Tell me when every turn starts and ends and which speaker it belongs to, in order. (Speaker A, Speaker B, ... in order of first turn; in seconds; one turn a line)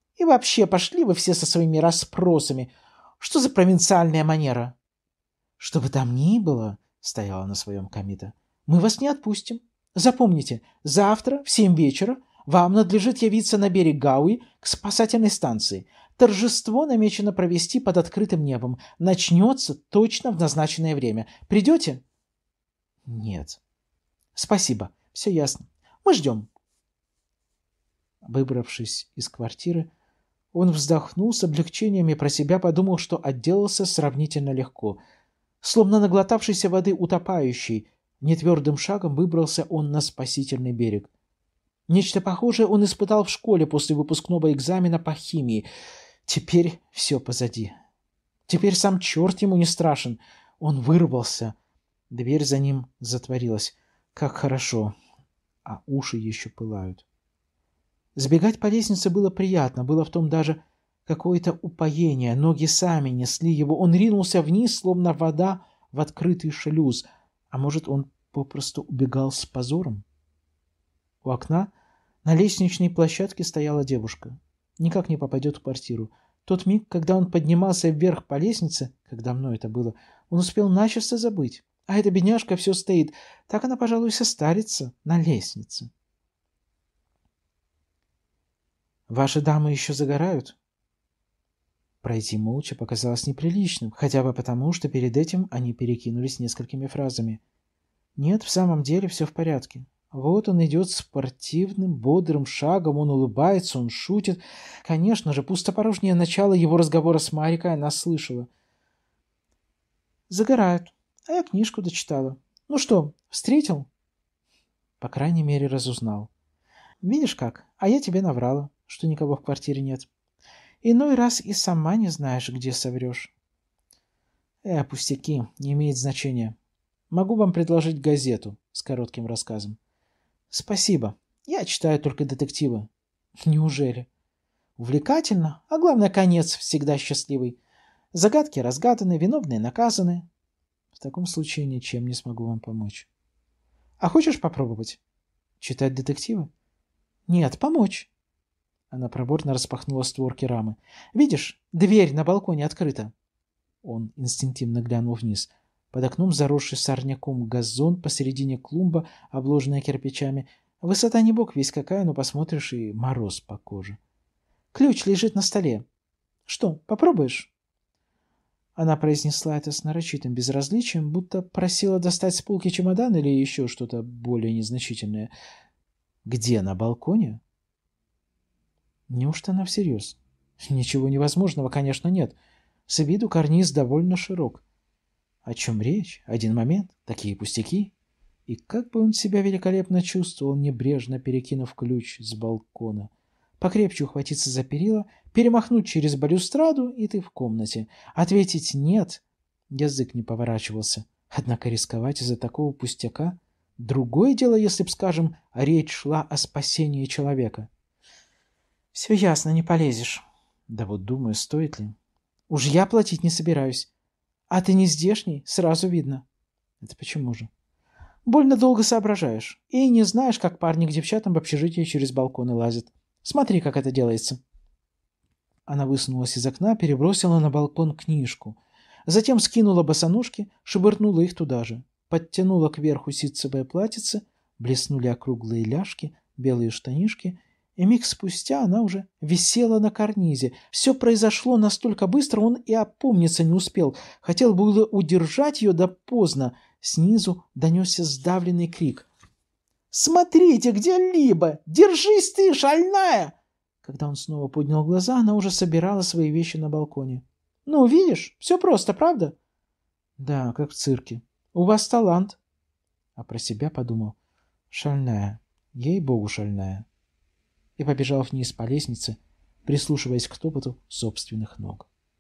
Speaker A: 0.2-4.7
Speaker A: 5.6-22.0
Speaker A: 23.1-23.6
Speaker A: 24.3-26.5
Speaker A: 28.2-29.9
Speaker A: 30.5-35.0
Speaker A: 35.6-41.1
Speaker A: 41.9-45.7
Speaker A: 46.3-47.7
Speaker A: 48.5-51.5
Speaker A: 52.1-55.0
Speaker A: 55.6-57.0
Speaker A: 58.1-70.0
Speaker A: 71.2-71.7
Speaker A: 72.2-85.9
Speaker A: 89.1-90.6
Speaker A: 92.0-97.4
Speaker A: 98.2-108.5
Speaker A: 110.3-113.9
Speaker A: 115.0-116.3
Speaker A: 117.0-120.1
Speaker A: 120.8-123.3
Speaker A: 124.6-126.5
Speaker A: 127.1-129.8
Speaker A: 130.5-132.9
Speaker A: 133.4-134.1
Speaker A: 134.8-137.6
Speaker A: 138.1-140.3
Speaker A: 140.9-143.1
Speaker A: 144.0-145.0
Speaker A: 145.6-146.5
Speaker A: 147.3-148.1
Speaker A: 148.9-153.1
Speaker A: 153.8-164.0
Speaker A: 164.7-165.8
Speaker A: 166.4-167.5
Speaker A: 168.8-175.3
Speaker A: 176.2-177.4
Speaker A: 179.1-182.3
Speaker A: 182.9-184.6
Speaker A: 185.4-187.9
Speaker A: 188.5-207.7
Speaker A: 208.9-211.9
Speaker A: 212.5-213.9
Speaker A: 214.5-216.2
Speaker A: 216.8-217.5
Speaker A: 218.2-224.4
Speaker A: 225.7-249.1
Speaker A: 249.9-259.4
Speaker A: 260.2-262.4
Speaker A: 263.1-264.1
Speaker A: 264.7-266.9
Speaker A: 267.8-271.9